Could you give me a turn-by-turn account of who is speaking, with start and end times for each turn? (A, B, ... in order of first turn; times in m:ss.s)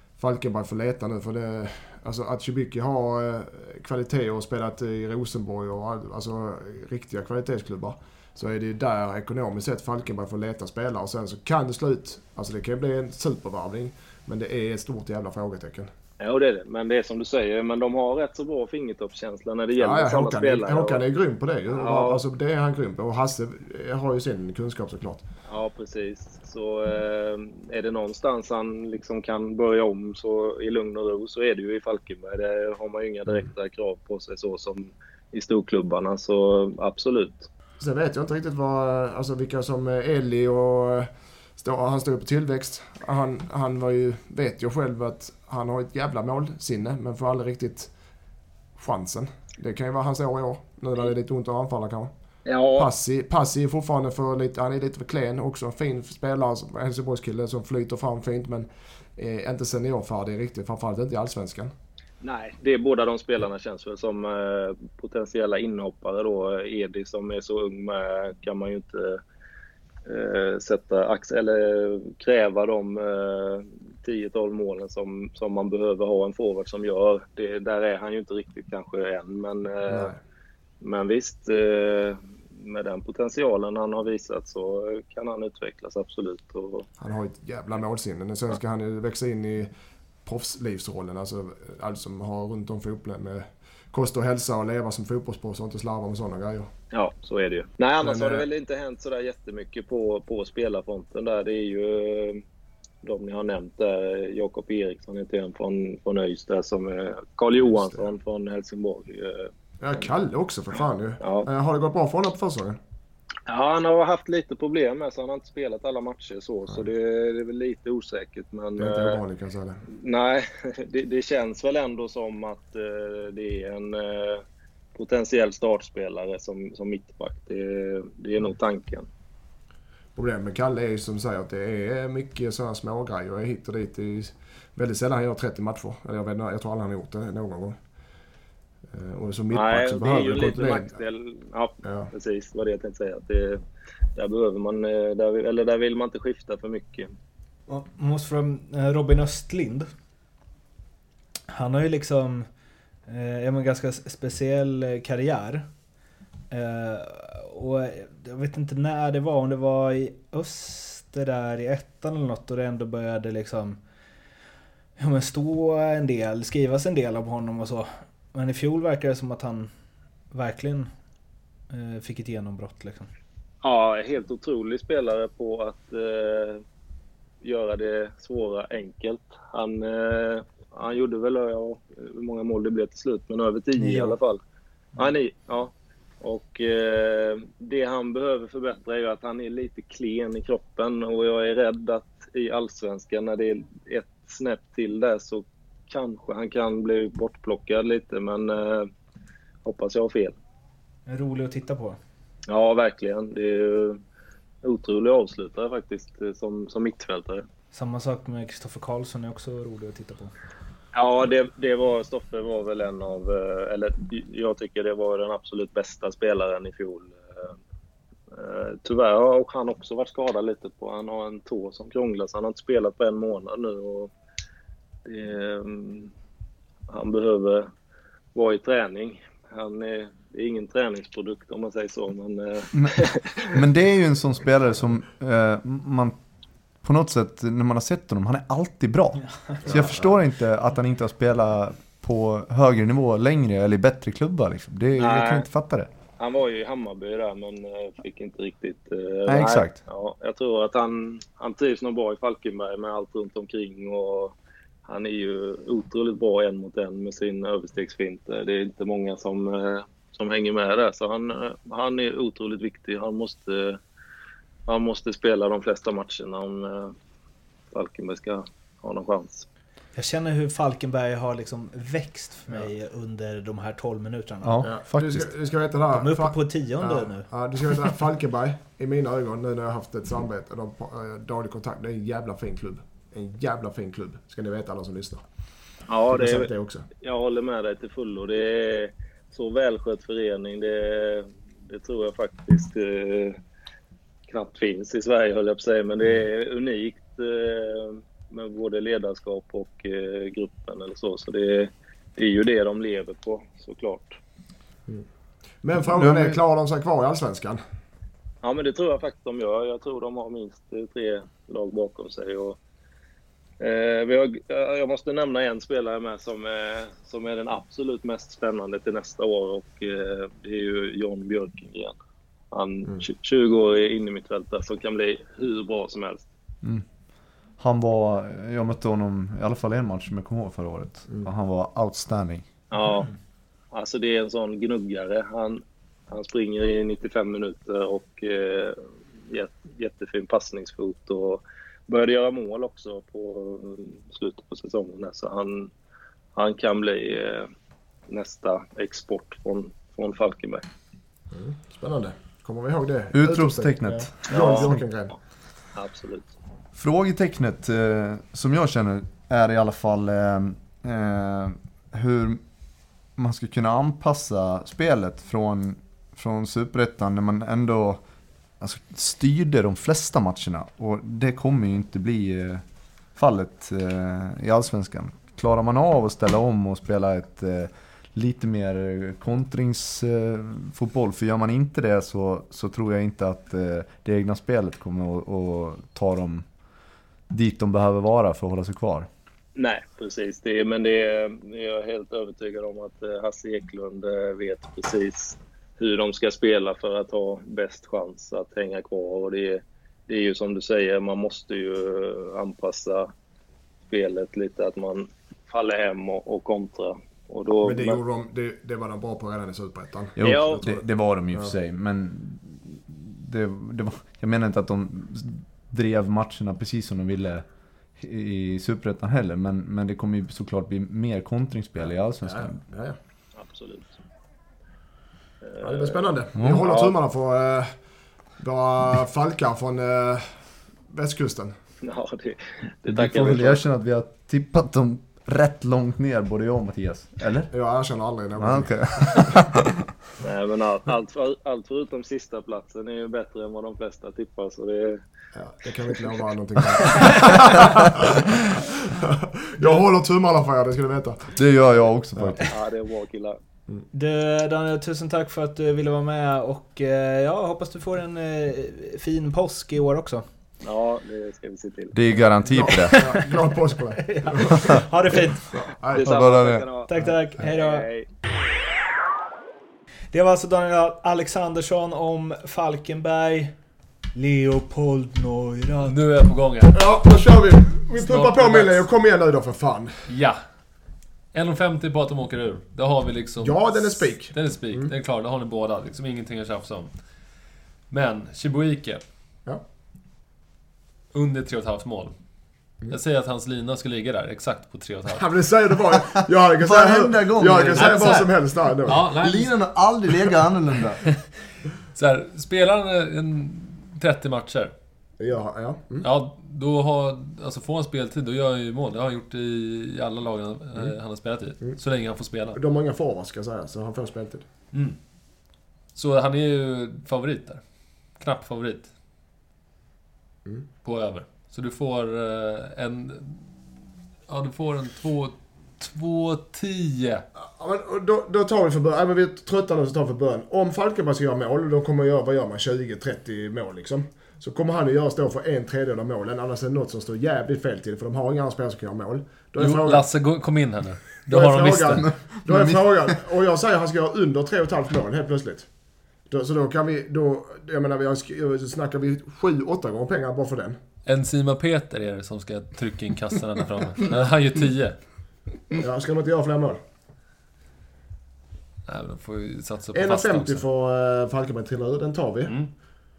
0:00.2-0:15.9 A
0:16.2-0:21.0 B
0:19.8-0:25.2 A
0:21.7-0:22.2 B
0:25.5-0:37.5 B
0:37.8-0:47.9 A
0:48.8-0:52.1 A
0:52.4-0:52.9 B
0:52.8-1:01.7 A
1:02.2-1:09.2 B
1:10.0-1:20.1 B
1:19.9-1:20.2 A
1:20.8-1:26.9 B
1:27.0-1:29.7 A
1:30.2-1:36.7 A
1:36.9-1:42.4 B
1:38.0-1:38.4 A
1:43.0-1:49.5 B
1:47.7-1:48.0 A
1:49.8-1:52.8 A
1:51.2-1:51.5 B
1:53.5-1:59.2 B
1:58.8-1:59.8 A
1:59.9-2:04.4 B
2:04.9-2:09.1 B
2:10.1-2:17.8 A
2:18.9-2:20.9 A
2:19.5-2:23.6 B
2:21.8-2:22.1 A
2:24.1-2:27.1 B
2:27.7-2:29.9 C
2:31.5-2:32.5 C
2:33.1-2:35.7 C
2:36.5-2:43.8 C
2:45.0-2:49.7 C
2:50.3-2:50.9 C
2:51.7-2:53.1 C
2:53.6-2:56.6 B
2:57.4-3:04.4 B
3:03.8-3:04.2 C
3:05.0-3:18.9 B
3:19.6-3:20.3 B
3:21.1-3:22.0 C
3:22.5-3:24.0 B
3:24.6-3:27.4 B
3:27.7-3:30.3 C
3:30.9-3:37.5 B
3:38.3-3:44.1 B
3:45.0-3:46.1 B
3:46.9-3:47.7 B
3:48.3-3:53.5 B
3:52.7-3:56.2 D
3:56.8-4:05.9 D
3:59.6-4:00.1 A
4:05.0-4:05.5 B
4:06.2-4:23.8 B
4:09.3-4:09.8 D
4:24.7-4:26.9 B
4:27.7-4:29.4 B
4:29.9-4:34.7 C
4:34.4-4:35.3 D
4:34.6-4:45.2 A
4:35.9-4:37.3 C
4:45.9-4:53.4 B
4:46.1-4:46.8 A
4:54.3-5:04.2 B
5:05.6-5:07.6 A
5:05.9-5:06.4 D
5:08.4-5:12.6 B
5:13.6-5:22.0 B
5:22.5-5:26.2 B
5:27.6-5:32.5 D
5:32.7-5:33.1 B
5:33.7-5:45.7 B
5:46.3-5:47.5 B
5:48.1-5:50.6 B
5:51.3-5:55.1 A
5:53.1-5:54.8 D
5:54.3-5:54.8 B
5:55.7-5:56.3 B
5:56.7-6:02.4 D
6:03.2-6:08.0 D
6:08.6-6:12.6 D
6:13.2-6:26.4 D
6:27.3-6:29.1 D
6:29.6-6:43.1 B
6:43.9-6:48.0 B
6:47.6-6:50.8 A
6:50.2-6:57.4 D
6:50.2-6:50.6 B
6:58.0-7:02.6 D
7:01.9-7:03.0 A
7:03.4-7:04.0 B
7:05.4-7:07.0 B
7:05.6-7:07.7 A
7:06.4-7:06.6 D
7:08.4-7:10.2 A
7:10.9-7:11.5 A
7:11.8-7:13.6 B
7:12.9-7:17.5 D
7:17.5-7:19.3 A
7:18.4-7:19.8 D
7:20.2-7:25.0 B
7:25.3-7:31.3 A
7:26.8-7:27.3 B
7:31.3-7:32.5 D
7:32.2-7:32.4 A
7:32.4-7:33.4 B
7:33.9-7:40.2 C
7:40.6-7:42.0 B
7:41.9-7:43.2 D
7:42.5-7:44.8 A
7:42.8-7:45.5 C
7:45.5-7:46.2 A
7:45.9-7:48.1 B
7:46.0-7:46.7 D
7:46.9-7:47.9 C
7:50.1-7:53.5 C
7:54.1-7:56.0 C
7:55.8-7:56.8 E
7:56.7-8:00.0 A
7:57.9-7:58.8 E
8:00.1-8:00.4 E
8:01.3-8:06.9 E
8:03.4-8:04.9 A
8:07.9-8:09.0 E
8:11.1-8:12.1 E
8:12.9-8:15.3 E
8:15.1-8:19.1 A
8:16.5-8:18.3 D
8:17.7-8:19.5 E
8:18.9-8:21.0 D
8:21.9-8:24.7 E
8:25.2-8:26.1 A
8:26.0-8:32.6 E
8:32.5-8:34.4 A
8:35.9-8:37.6 E
8:38.2-8:38.9 E
8:40.8-8:43.5 E
8:44.3-8:47.2 E
8:47.4-9:00.0 A
8:59.6-9:02.1 E
9:01.3-9:05.7 A
9:02.0-9:03.0 D
9:06.3-9:10.8 A
9:11.0-9:15.0 E
9:15.7-9:16.8 A
9:18.9-9:20.6 E
9:19.9-9:22.5 A